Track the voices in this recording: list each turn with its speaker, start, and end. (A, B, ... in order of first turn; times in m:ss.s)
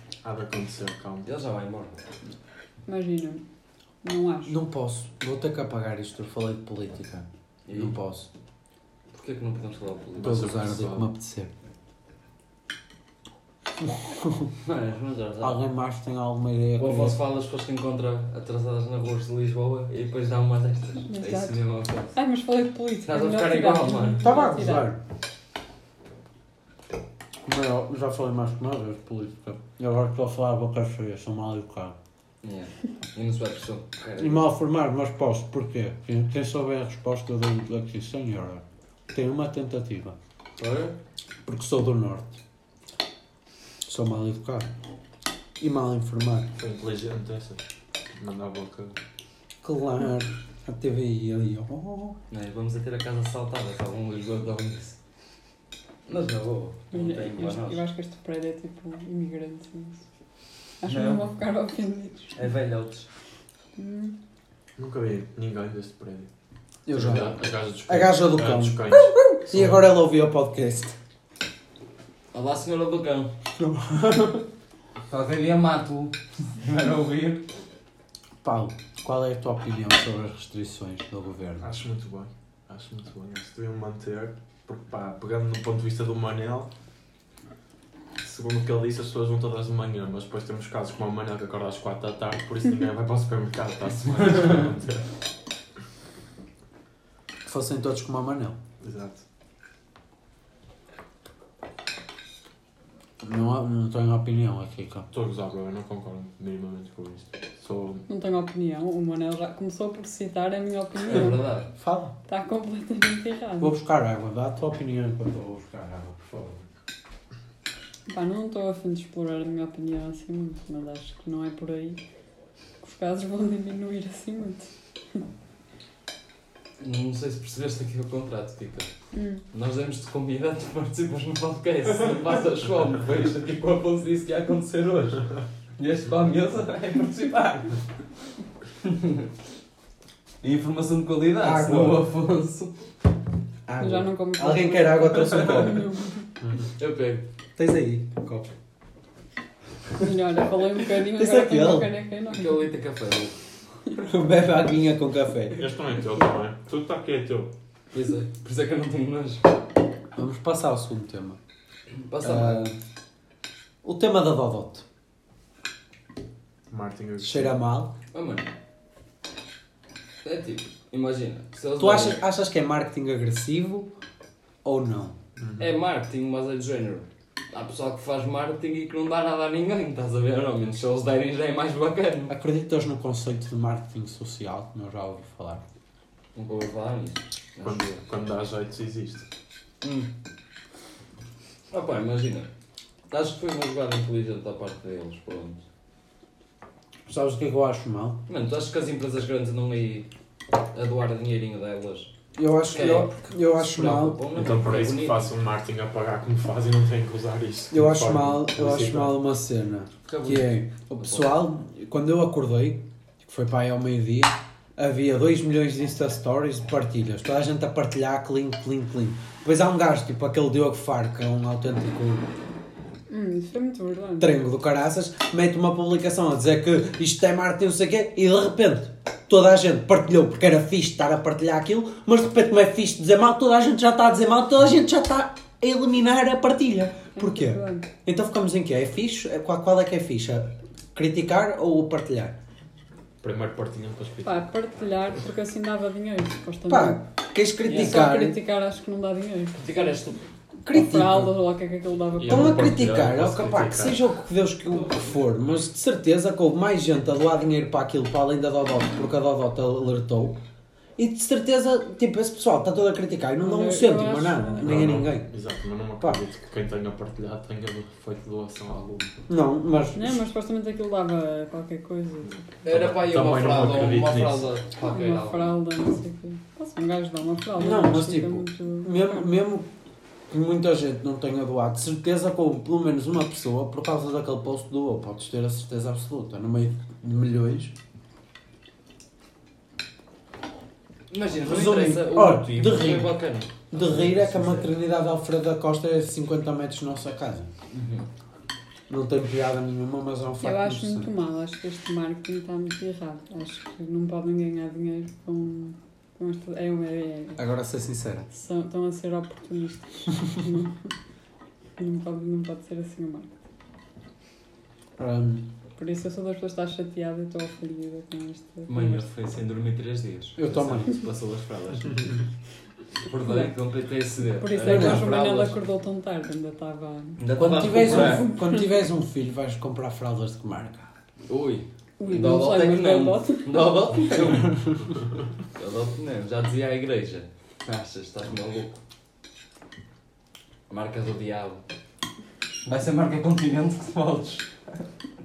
0:00.2-0:01.3 A
0:01.2-0:02.0 B
0:02.9-0:03.4 C
0:04.0-0:04.6 C
0:04.5-0:08.3 D
0:07.7-0:08.0 B
0:09.1-0:10.5 B
0:10.2-0:11.1 A
0:10.2-0:11.5 D
0:13.8-0:14.5 D
0:14.6-0:15.6 B
0:15.4-0:17.2 D
0:16.8-0:22.2 B
0:21.1-0:21.6 C
0:22.1-0:24.9 C
0:23.0-0:24.3 B
0:24.2-0:25.0 D
0:27.4-0:32.0 D
0:32.4-0:34.5 B
0:34.2-0:40.2 D
0:40.6-0:41.0 B
0:41.4-0:42.4 D
0:43.8-0:44.7 D
0:45.6-0:46.5 D
0:46.6-0:47.6 A
0:48.2-0:49.0 A
0:49.6-0:52.2 D
0:52.3-0:55.0 B
0:56.1-0:57.8 B
0:56.9-1:00.0 C
1:00.8-1:02.4 C
1:00.9-1:01.2 B
1:02.4-1:03.1 B
1:03.8-1:04.2 C
1:04.8-1:06.3 A
1:06.9-1:11.0 D
1:06.9-1:09.8 A
1:12.3-1:13.3 B
1:13.6-1:14.4 D
1:15.1-1:17.5 B
1:18.4-1:21.8 D
1:21.6-1:26.7 A
1:28.2-1:35.1 A
1:34.1-1:34.7 B
1:37.4-1:38.6 D
1:38.8-1:39.2 A
1:43.2-1:45.1 D
1:45.1-1:48.0 A
1:48.1-1:51.4 C
1:51.1-1:51.7 B
1:51.8-1:52.1 D
1:52.3-1:53.8 C
1:53.6-1:56.3 D
1:56.3-1:56.6 A
1:58.1-2:02.0 C
2:02.8-2:05.2 C
2:06.8-2:08.9 B
2:09.1-2:09.4 C
2:09.5-2:15.3 B
2:15.8-2:17.8 B
2:18.8-2:19.3 B
2:20.4-2:22.7 B
2:21.4-2:22.1 D
2:23.7-2:25.9 D
2:23.8-2:26.2 C
2:26.8-2:27.2 B
2:27.6-2:28.5 D
2:30.0-2:32.7 C
2:30.9-2:31.9 D
2:32.3-2:33.4 B
2:34.0-2:35.6 D
2:35.6-2:37.5 A
2:37.9-2:39.5 B
2:40.2-2:41.4 D
2:42.0-2:42.7 B
2:42.2-2:42.8 D
2:43.8-2:44.8 D
2:46.7-2:47.6 A
2:47.2-2:47.9 D
2:48.1-2:48.5 B
2:50.2-2:52.2 B
2:51.8-2:53.9 D
2:54.6-2:55.2 D
2:55.4-2:55.7 A
2:55.6-3:02.4 B
3:02.3-3:05.6 D
3:06.4-3:08.0 B
3:07.6-3:09.3 A
3:09.8-3:10.1 B
3:11.7-3:12.5 B
3:13.1-3:15.6 B
3:17.1-3:18.2 D
3:18.3-3:20.1 B
3:20.7-3:22.1 B
3:22.4-3:24.2 D
3:22.7-3:25.3 B
3:24.3-3:29.2 A
3:27.7-3:42.3 D
3:30.1-3:31.3 B
3:43.1-3:44.4 C
3:44.2-4:02.4 D
3:57.2-3:57.9 C
4:03.2-4:04.5 A
4:04.2-4:07.0 C
4:06.7-4:08.4 D
4:07.6-4:08.0 B
4:07.7-4:09.7 C
4:09.6-4:10.2 B
4:10.6-4:11.4 D
4:10.7-4:12.8 C
4:12.2-4:14.1 A
4:12.3-4:20.4 D
4:21.0-4:25.3 D
4:23.4-4:24.8 C
4:24.6-4:29.1 A
4:29.3-4:30.3 D
4:30.0-4:32.5 C
4:32.6-4:34.5 A
4:32.6-4:35.6 B
4:34.8-4:39.3 C
4:37.6-4:39.7 D
4:40.3-4:47.8 D
4:51.1-4:54.7 B
4:51.4-4:53.1 D
4:53.7-4:57.5 D
4:57.7-4:58.1 B
4:58.9-5:01.1 D
5:00.4-5:07.4 C
5:07.4-5:08.3 D
5:08.3-5:10.9 C
5:11.8-5:13.3 C
5:15.0-5:15.5 D
5:15.8-5:19.0 C
5:18.7-5:22.1 B
5:20.4-5:21.0 D
5:23.0-5:25.6 B
5:24.4-5:28.7 C
5:24.6-5:25.1 D
5:27.2-5:28.3 B
5:27.4-5:30.9 D
5:31.3-5:34.7 B
5:32.0-5:34.4 C
5:35.6-5:38.8 B
5:40.7-5:41.6 B
5:42.7-5:44.5 B